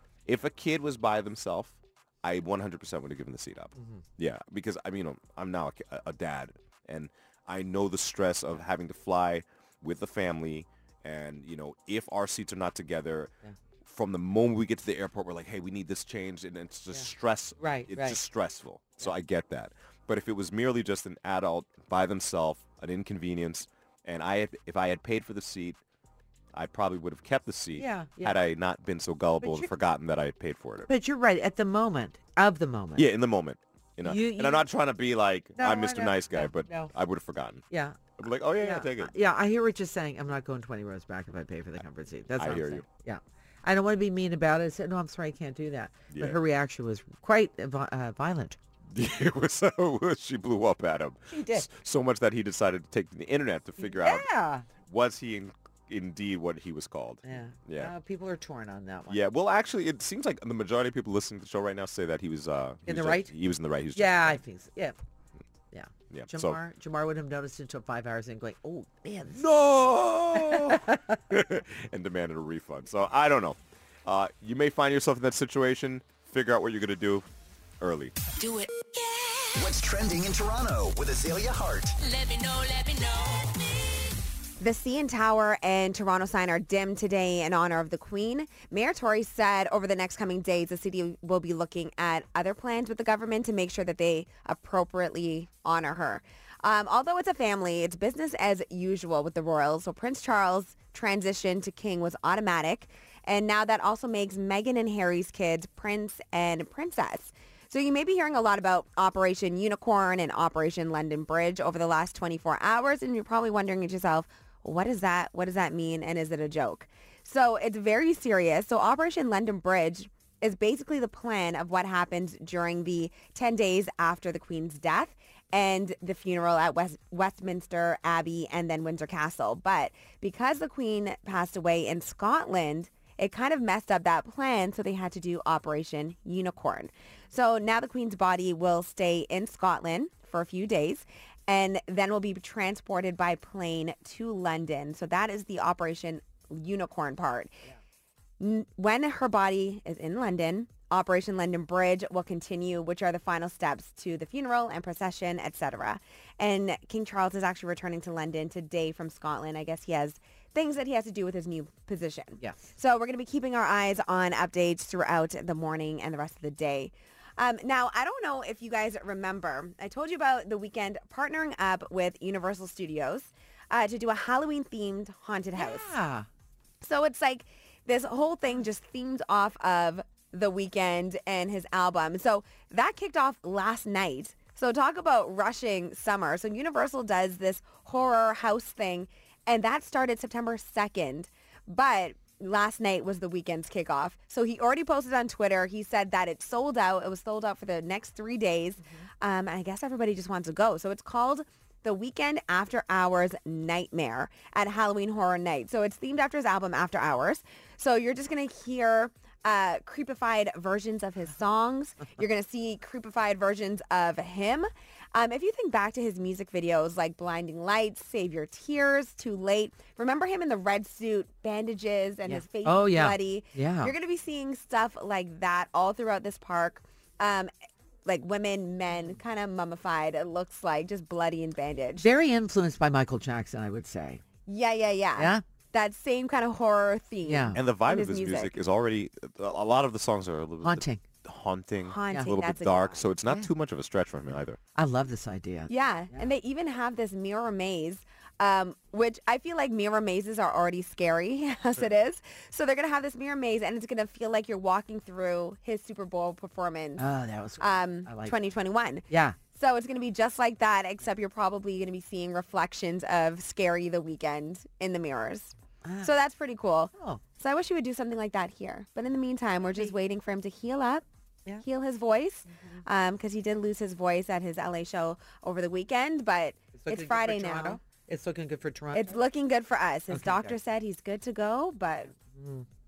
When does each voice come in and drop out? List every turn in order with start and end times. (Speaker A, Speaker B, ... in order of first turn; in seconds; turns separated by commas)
Speaker A: 0.2-13.3, Speaker B: 3.8-4.0, Speaker A: 13.8-25.8, Speaker B: 16.9-18.2, Speaker A: 26.5-30.9, Speaker B: 27.8-28.4, Speaker B: 29.4-29.7, Speaker B: 30.9-33.1, Speaker A: 33.0-37.6, Speaker B: 34.0-34.7, Speaker B: 35.5-36.9, Speaker B: 37.7-38.0, Speaker A: 38.2-39.1, Speaker B: 38.6-48.6, Speaker A: 42.4-42.8, Speaker A: 46.1-46.4, Speaker A: 48.9-54.3, Speaker B: 51.3-51.7, Speaker B: 53.8-54.6, Speaker A: 54.8-57.9, Speaker B: 57.2-59.2, Speaker A: 59.1-64.4, Speaker B: 62.9-63.3, Speaker B: 63.9-65.0, Speaker B: 65.7-69.4, Speaker A: 66.1-66.6, Speaker A: 69.3-77.3, Speaker B: 70.3-71.2, Speaker A: 77.8-78.1, Speaker C: 78.4-79.7, Speaker D: 79.5-82.0, Speaker C: 82.0-84.0, Speaker E: 84.6-147.6, Speaker E: 148.4-176.0, Speaker B: 175.6-176.3, Speaker E: 176.8-227.5, Speaker B: 222.2-223.9, Speaker E: 228.1-232.1, Speaker B: 232.0-234.2, Speaker E: 234.5-238.5, Speaker B: 235.2-235.4, Speaker B: 237.2-237.6, Speaker A: 237.5-244.6, Speaker B: 240.6-241.0, Speaker E: 241.8-243.1, Speaker B: 244.7-246.2, Speaker E: 245.7-257.1, Speaker B: 257.0-258.3, Speaker E: 257.6-271.0, Speaker B: 259.1-259.4, Speaker B: 265.8-266.1, Speaker B: 266.9-267.2, Speaker E: 271.6-277.8, Speaker B: 276.8-279.1, Speaker E: 278.9-282.1, Speaker B: 280.1-280.5, Speaker B: 282.2-282.6